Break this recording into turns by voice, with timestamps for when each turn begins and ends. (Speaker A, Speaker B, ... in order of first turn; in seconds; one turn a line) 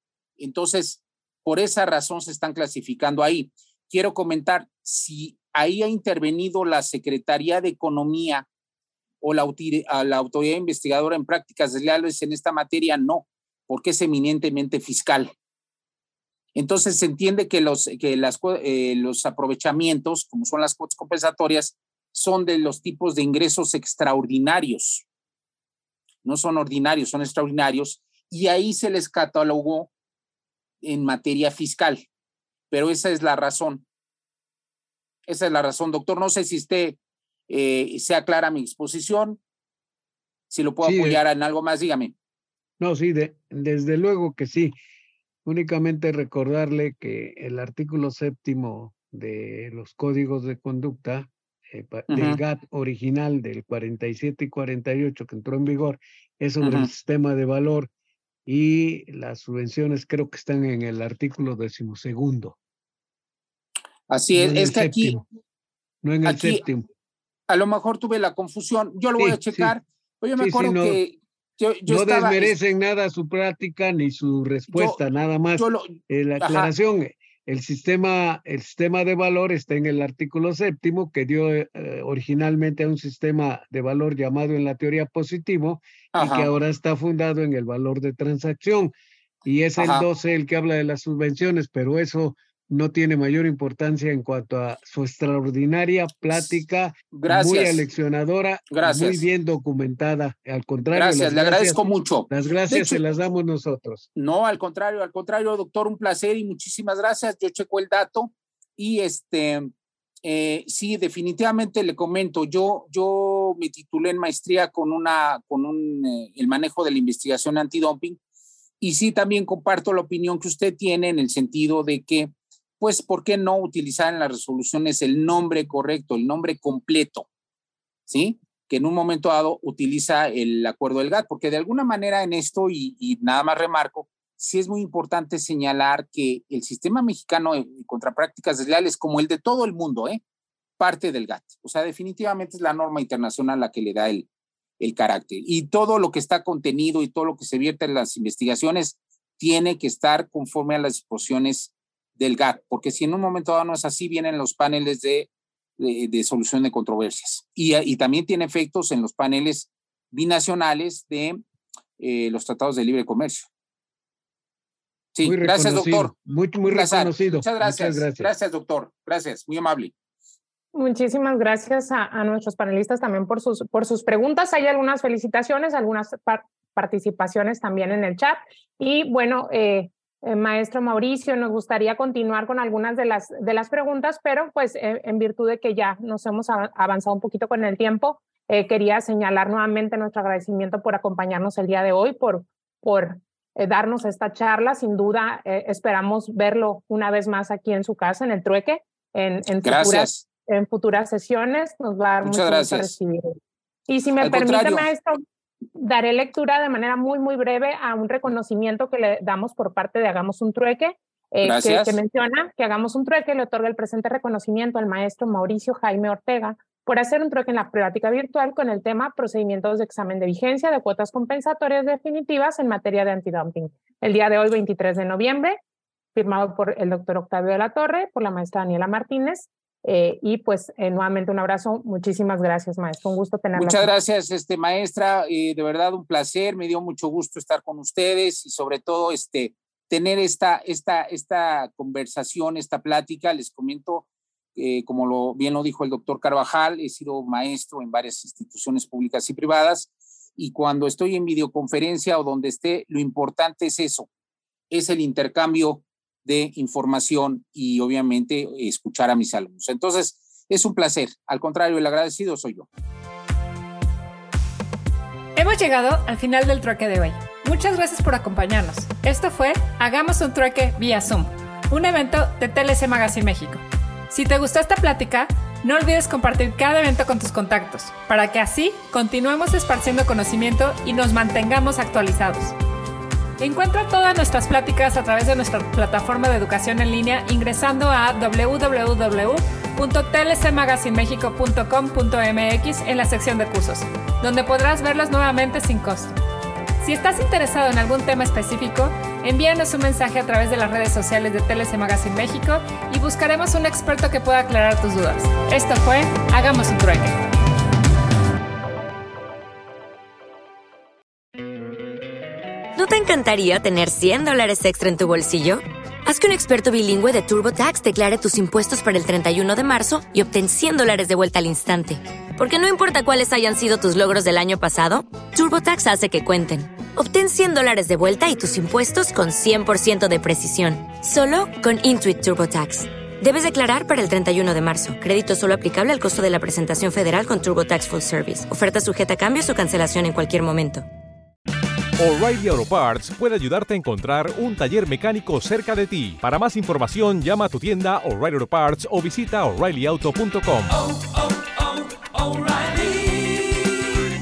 Speaker A: 0.4-8.4
Speaker A: 9.2-15.3
Speaker A: 16.6-25.1
Speaker A: 26.2-29.9
Speaker A: 30.8-32.0
Speaker A: 32.7-33.9
Speaker A: 35.3-37.0
Speaker A: 37.5-39.4
Speaker A: 40.5-42.1
Speaker B: 40.8-41.2
Speaker B: 42.8-44.8
Speaker B: 45.4-57.9
Speaker A: 52.1-52.4
Speaker A: 56.6-56.9
Speaker B: 58.5-62.6
Speaker A: 64.1-65.1
Speaker B: 64.3-65.2
Speaker B: 66.0-66.9
Speaker A: 66.2-66.6
Speaker A: 67.5-72.5
Speaker B: 69.2-69.7
Speaker B: 70.4-71.0
Speaker B: 71.8-88.9
Speaker A: 74.7-75.0
Speaker A: 75.6-76.7
Speaker A: 86.1-86.5
Speaker B: 89.4-104.1
Speaker A: 89.8-90.1
Speaker A: 97.1-97.8
Speaker A: 98.7-99.2
Speaker A: 100.9-103.0
Speaker A: 104.2-109.7
Speaker A: 110.2-118.2
Speaker A: 118.8-127.3
Speaker A: 128.1-140.2
Speaker A: 140.8-144.3
Speaker A: 144.8-161.4
Speaker A: 162.0-163.5
Speaker A: 165.2-169.9
Speaker B: 165.2-168.3
Speaker C: 170.7-203.4
Speaker A: 199.6-200.2
Speaker A: 202.2-202.9
Speaker C: 203.9-205.2
Speaker A: 204.2-204.9
Speaker C: 205.8-225.6
Speaker A: 211.4-212.0
Speaker C: 226.1-233.9
Speaker A: 233.6-254.1
Speaker A: 254.7-262.7
Speaker D: 265.4-282.5
Speaker D: 283.4-296.2
Speaker D: 296.8-307.2
Speaker E: 312.8-340.9
Speaker F: 342.0-350.8
Speaker F: 352.5-352.9